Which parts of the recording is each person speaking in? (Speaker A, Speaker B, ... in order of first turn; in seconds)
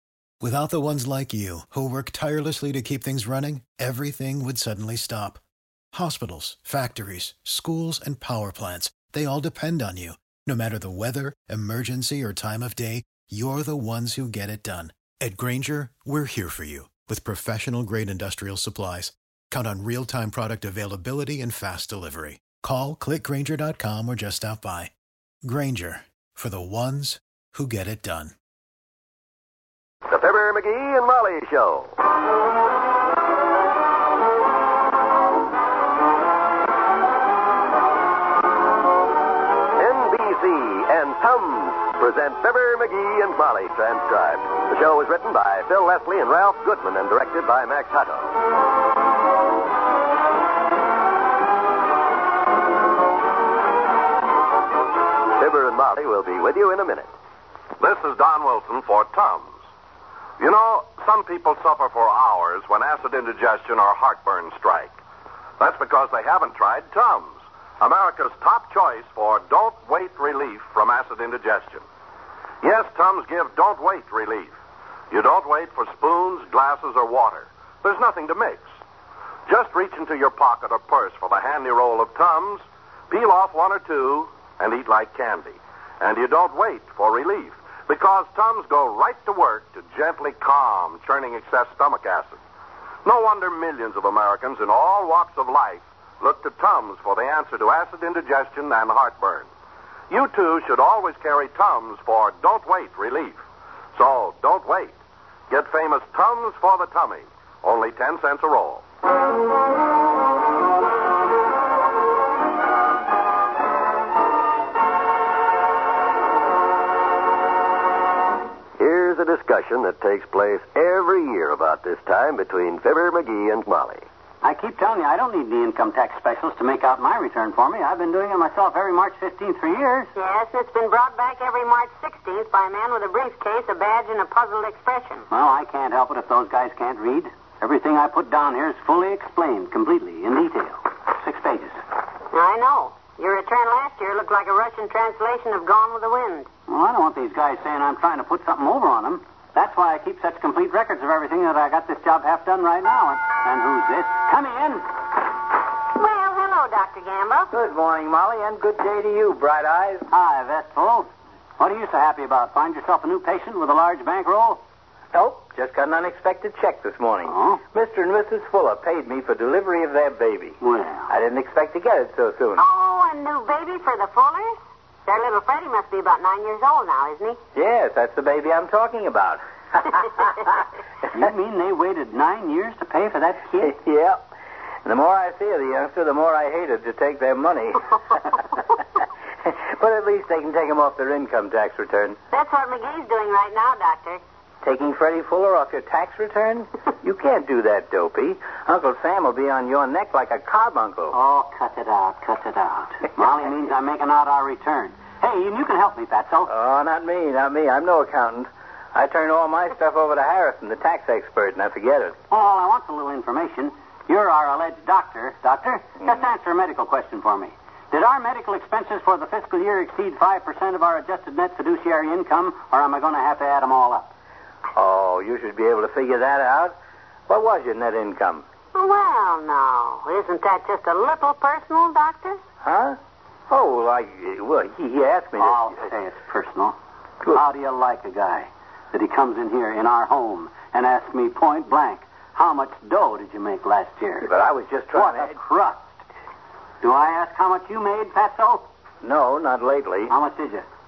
Speaker A: 0.4-5.4, 5.9-24.9, 25.4-28.4
Speaker B: 30.1-31.9, 39.8-48.4, 55.4-57.1, 118.8-124.1
Speaker C: 57.8-59.6, 60.4-65.0, 65.6-71.8, 72.6-74.6, 75.1-78.7, 79.5-92.4, 93.0-99.5, 100.1-103.4, 103.9-105.0, 105.5-108.8
Speaker D: 124.4-130.1, 135.3-141.8, 146.7-154.8, 160.1-164.6, 167.3-167.6, 170.6-171.1, 181.1-183.7, 201.1-206.5, 212.3-224.1, 235.4-236.8, 237.3-244.3, 244.9-246.0, 246.8-248.7, 250.1-250.7
Speaker E: 130.2-135.3, 142.3-146.5, 155.9-157.5, 172.6-177.4, 192.3-194.2, 228.7-232.4
Speaker F: 157.5-160.0, 165.1-170.6, 171.1-172.6, 177.6-180.3, 183.6-184.2, 184.8-188.8, 189.4-192.2, 194.6-201.2, 206.5-212.2, 224.8-226.8, 227.3-228.4, 232.6-233.0, 233.5-235.8, 244.2-245.3, 249.0-250.1